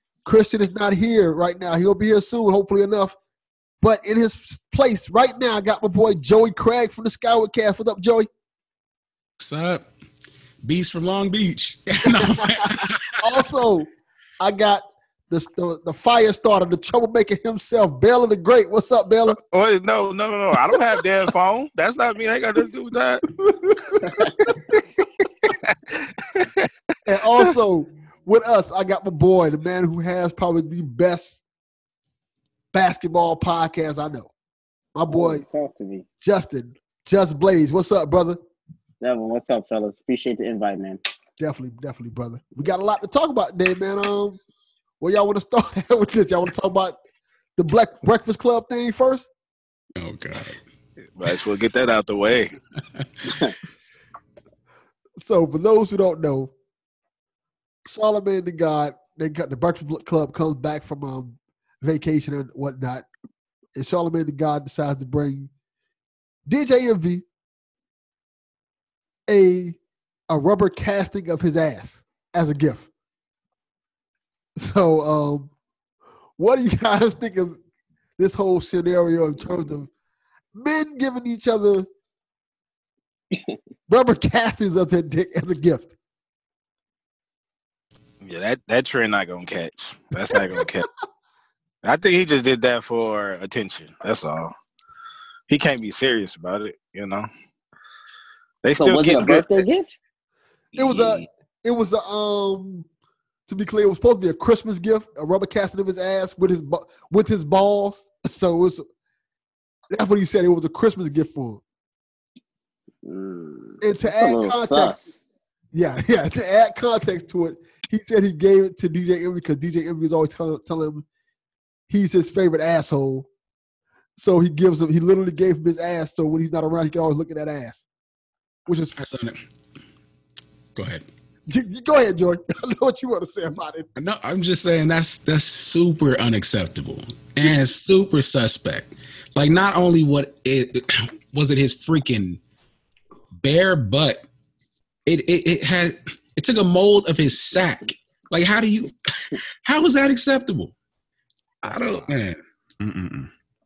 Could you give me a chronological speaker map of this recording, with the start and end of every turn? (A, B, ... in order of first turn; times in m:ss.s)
0:00.2-0:03.2 A
0:03.8-0:08.3 A
0:09.4-0:09.8 B
0:10.6-0:13.2 B
0:12.0-0:13.9 A
0:14.4-0:19.4 A
0:19.4-0:23.2 C
0:23.3-0:24.7 A
0:24.0-0:24.3 D
0:26.2-0:26.7 C
0:27.0-0:31.4 A
0:32.7-0:34.3 A
0:34.9-0:35.4 A
0:35.1-0:36.0 D
0:36.2-0:38.4 A
0:39.0-0:41.0 D
0:41.4-0:44.4 A
0:45.0-0:47.0 A
0:47.6-0:49.3 A
0:50.0-0:50.6 B
0:51.2-0:52.5 C
0:53.0-0:53.4 B
0:53.3-0:53.5 D
0:55.2-0:56.5 A
0:57.8-1:03.1 A
1:03.7-1:05.5 A
1:06.4-1:07.2 A
1:09.3-1:09.8 A
1:10.3-1:12.9 A
1:14.6-1:15.5 A
1:16.4-1:17.6 A
1:18.2-1:19.9 A
1:20.5-1:21.9 A
1:23.9-1:25.9 A
1:28.2-1:30.9 C
1:30.3-1:30.7 A
1:31.8-1:34.5 C
1:35.5-1:37.2 C
1:38.6-1:39.6 C
1:38.7-1:39.9 D
1:40.7-1:42.9 A
1:40.8-1:41.2 C
1:43.5-1:48.8 A
1:49.9-1:51.6 A
1:53.0-1:55.2 D
1:53.8-1:55.0 A
1:55.7-2:01.0 A
2:01.9-2:03.3 A
2:04.2-2:07.8 A
2:08.7-2:09.0 A
2:09.0-2:09.4 B
2:10.7-2:11.0 B
2:11.5-2:13.9 A
2:14.0-2:22.4 B
2:23.4-2:24.2 B
2:25.0-2:28.9 B
2:29.6-2:30.7 B
2:31.6-2:33.3 B
2:31.7-2:32.1 C